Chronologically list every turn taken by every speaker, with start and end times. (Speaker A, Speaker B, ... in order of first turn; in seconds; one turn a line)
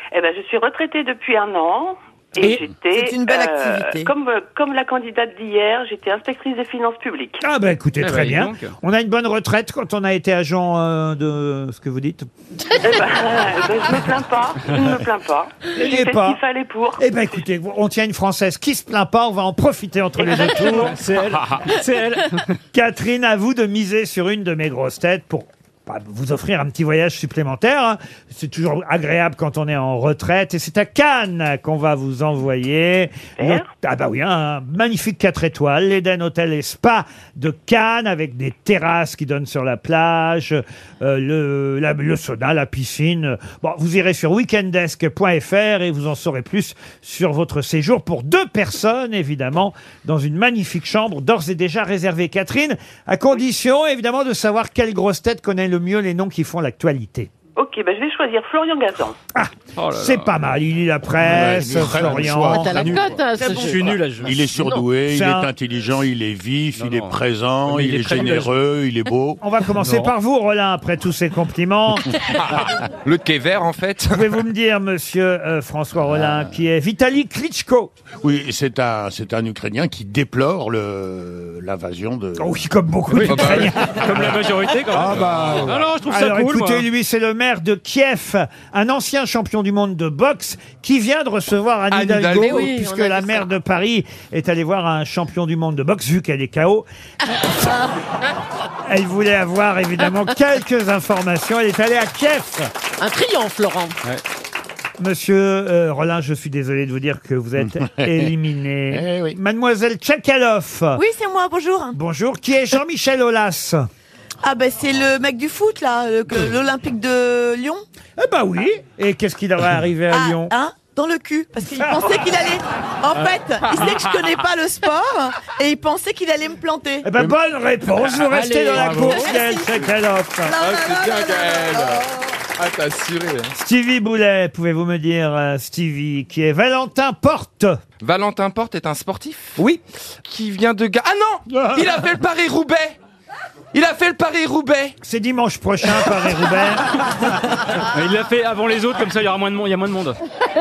Speaker A: 0.1-7.4
Speaker B: 2.4-4.1
Speaker C: 7.4-12.3
Speaker D: 8.0-8.7
Speaker A: 12.8-17.1
Speaker C: 15.7-16.4
Speaker C: 17.0-21.0
Speaker A: 20.2-20.6
Speaker D: 20.2-22.5
Speaker C: 22.7-57.3
Speaker A: 33.4-33.7
Speaker A: 57.6-59.1
Speaker C: 59.3-62.7
Speaker D: 59.8-60.3
Speaker E: 61.2-62.6
Speaker F: 61.3-62.9
Speaker G: 62.5-64.8
Speaker D: 62.7-64.4
Speaker B: 63.3-64.1
Speaker E: 64.2-69.4
Speaker C: 65.1-65.5
Speaker D: 66.7-68.5
Speaker C: 69.4-72.1
Speaker D: 69.8-70.1
Speaker F: 72.4-74.4
Speaker C: 74.1-77.9
Speaker E: 76.1-76.5
Speaker E: 78.2-82.6
Speaker C: 82.4-84.2
Speaker D: 83.1-86.9
Speaker F: 83.2-85.9
Speaker E: 85.1-85.5
Speaker C: 86.0-96.8
Speaker F: 91.9-92.7
Speaker G: 92.3-93.5
Speaker C: 98.8-102.7
Speaker G: 103.0-104.0
Speaker C: 105.0-111.0
Speaker E: 107.6-108.3
Speaker E: 108.9-109.4
Speaker B: 111.0-112.0
Speaker C: 111.9-113.8
Speaker B: 114.4-117.8
Speaker C: 118.2-120.5
Speaker B: 120.1-127.1
Speaker C: 121.7-122.5
Speaker D: 123.7-124.2
Speaker C: 127.0-130.6
Speaker D: 128.3-129.3
Speaker B: 128.8-129.8
Speaker B: 130.4-132.1
Speaker F: 130.6-133.5
Speaker C: 133.5-137.7
Speaker F: 138.0-143.0
Speaker F: 143.7-144.9
Speaker C: 145.0-147.0
Speaker D: 147.8-150.2